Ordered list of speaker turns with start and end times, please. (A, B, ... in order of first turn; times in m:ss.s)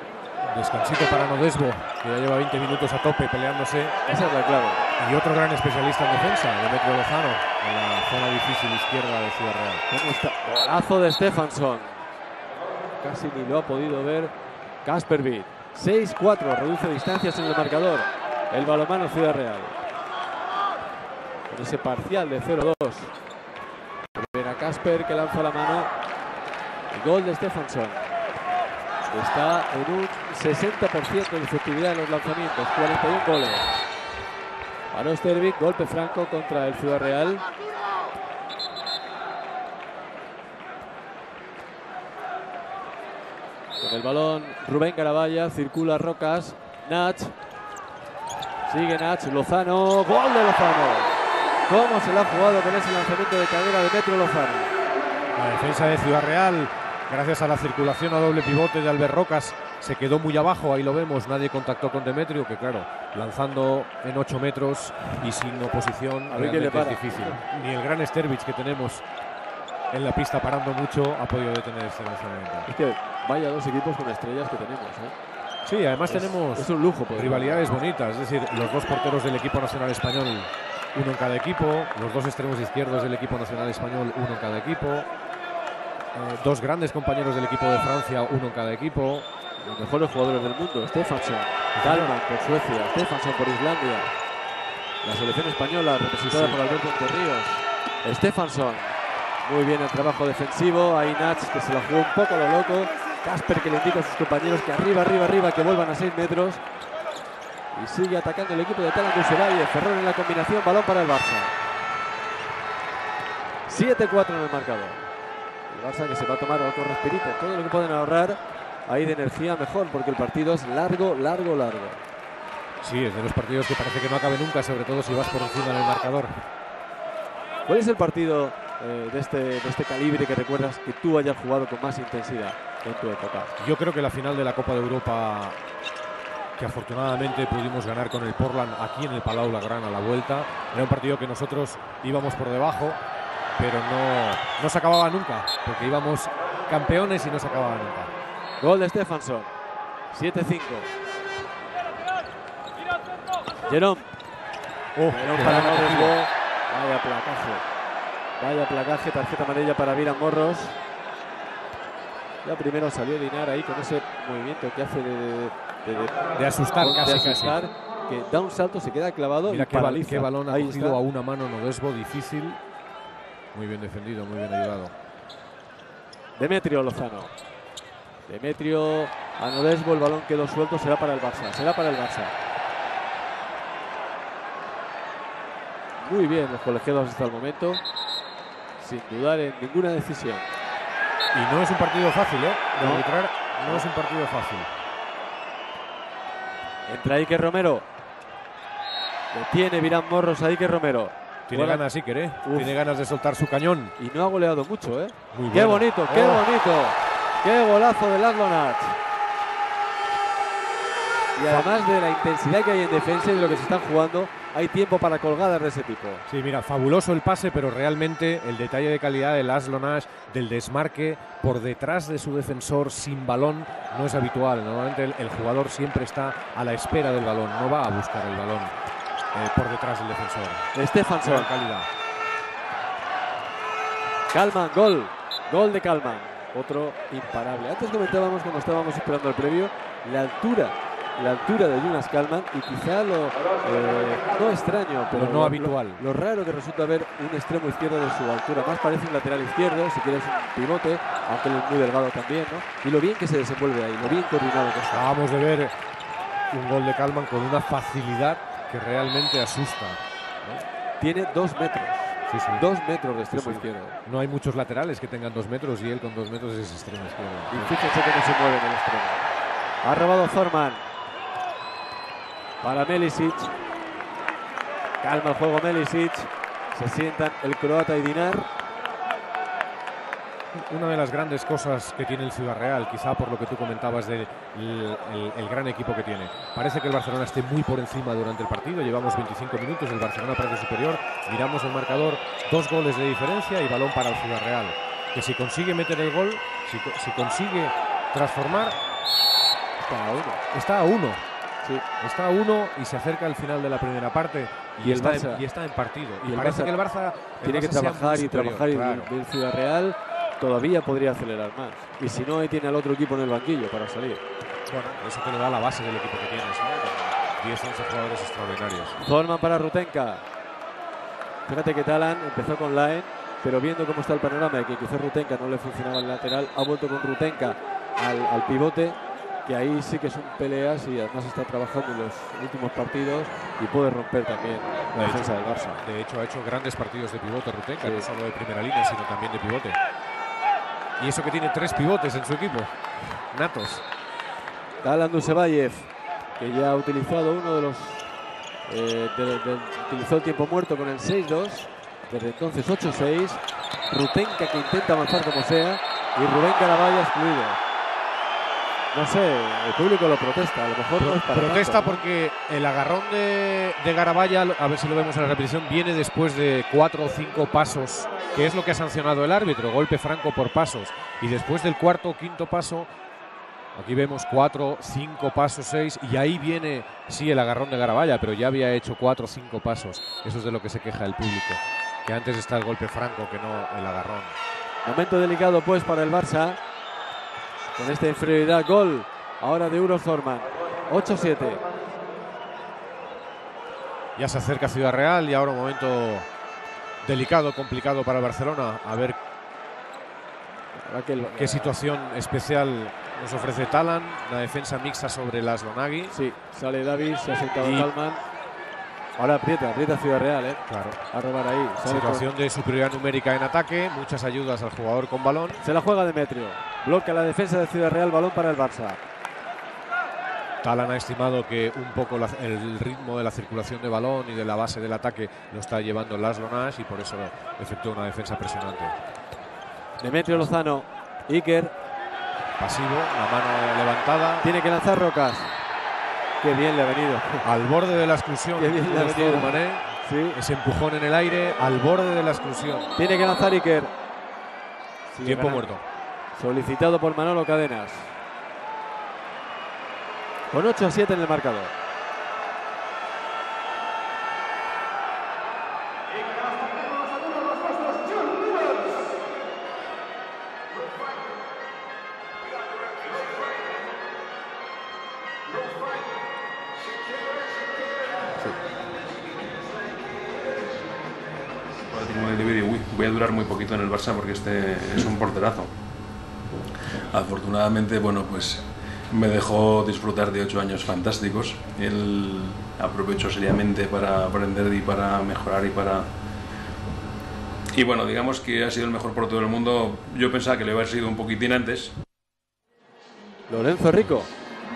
0:00.4-0:04.0 A
0:04.1-0:04.8 B
0:05.0-0:09.9 A
0:09.9-0:12.1 B
0:13.0-0:14.3 B
0:14.8-0:19.8 B
0:21.5-0:23.1 B
0:24.1-0:25.9 B
0:26.9-0:28.1 B
0:29.1-0:33.7 B
0:34.9-0:37.4 B
0:43.8-0:47.3 B
0:48.7-0:54.7 B
0:55.4-1:09.0 A
1:06.3-1:07.4 B
1:09.9-1:12.7 A
1:12.7-1:15.2 B
1:15.7-1:25.1 A
1:16.1-1:17.6 B
1:26.2-1:29.3 A
1:29.6-1:34.1 B
1:31.8-1:32.1 A
1:35.0-1:46.6 B
1:36.2-1:36.6 A
1:47.8-1:51.5 B
1:53.7-1:55.1 B
1:55.7-2:02.0 B
2:02.8-2:06.4 A
2:07.7-2:13.6 B
2:13.6-2:15.6 A
2:16.6-2:23.0 A
2:23.6-2:28.1 A
2:28.6-2:29.5 B
2:30.1-2:30.9 B
2:33.7-2:34.1 B
2:35.0-2:36.2 A
2:35.1-2:37.6 B
2:38.4-2:40.8 B
2:42.4-2:51.0 B
2:46.4-2:47.6 A
2:49.5-2:52.6 A
2:53.5-2:54.9 A
2:56.4-2:57.3 B
2:58.3-3:02.3 B
3:06.0-3:07.8 B
3:08.8-3:10.5 B
3:11.3-3:14.7 A
3:12.8-3:13.1 B
3:16.9-3:17.9 B
3:19.3-3:21.8 B
3:21.5-3:23.9 A
3:22.4-3:22.8 B
3:24.0-3:29.0 B
3:25.3-3:26.4 A
3:31.4-3:36.2 B
3:36.3-3:48.7 A
3:49.3-3:50.7 A
3:50.8-3:51.5 B
3:51.2-3:51.9 A
3:54.3-4:15.1 B
4:05.1-4:06.0 A
4:14.9-4:15.7 A
4:16.5-4:20.0 A
4:20.4-4:24.0 B
4:22.3-4:22.6 A
4:23.3-4:27.8 A
4:27.5-4:29.3 B
4:29.8-4:30.8 B
4:32.6-4:33.6 B
4:35.0-4:38.5 B
4:40.5-4:58.8 A
4:59.8-5:00.4 B
5:00.5-5:01.2 A
5:02.0-5:09.1 A
5:04.8-5:05.4 B
5:06.2-5:06.7 B
5:07.4-5:14.2 B
5:14.7-5:19.0 A
5:19.0-5:20.2 B
5:21.5-5:35.8 B
5:35.0-5:39.8 A
5:37.8-5:38.1 B
5:41.0-5:43.8 A
5:44.8-5:48.1 B
5:48.7-5:57.6 B
5:58.9-6:02.0 B
6:01.0-6:12.9 A
6:13.8-6:24.4 A
6:24.8-6:26.6 B
6:27.8-6:31.6 B
6:34.2-6:36.3 A
6:37.0-6:39.2 A
6:40.8-6:41.7 B
6:41.4-6:46.2 A
6:46.1-6:48.2 B
6:47.6-6:47.9 A
6:49.2-6:52.3 B
6:50.7-6:51.0 A
6:51.8-6:55.6 A
6:55.6-6:59.0 B
7:00.6-7:09.0 A
7:10.0-7:11.8 B
7:12.6-7:14.5 A
7:14.4-7:15.5 B
7:16.4-7:17.5 B
7:17.4-7:22.9 A
7:18.6-7:20.4 B
7:23.0-7:23.9 B
7:25.1-7:25.7 B
7:25.2-7:25.8 A
7:26.4-7:28.2 B
7:30.5-7:31.7 B
7:51.9-7:55.8 C
7:56.8-8:06.1 C
8:07.7-8:12.0 C
8:13.5-8:14.3 B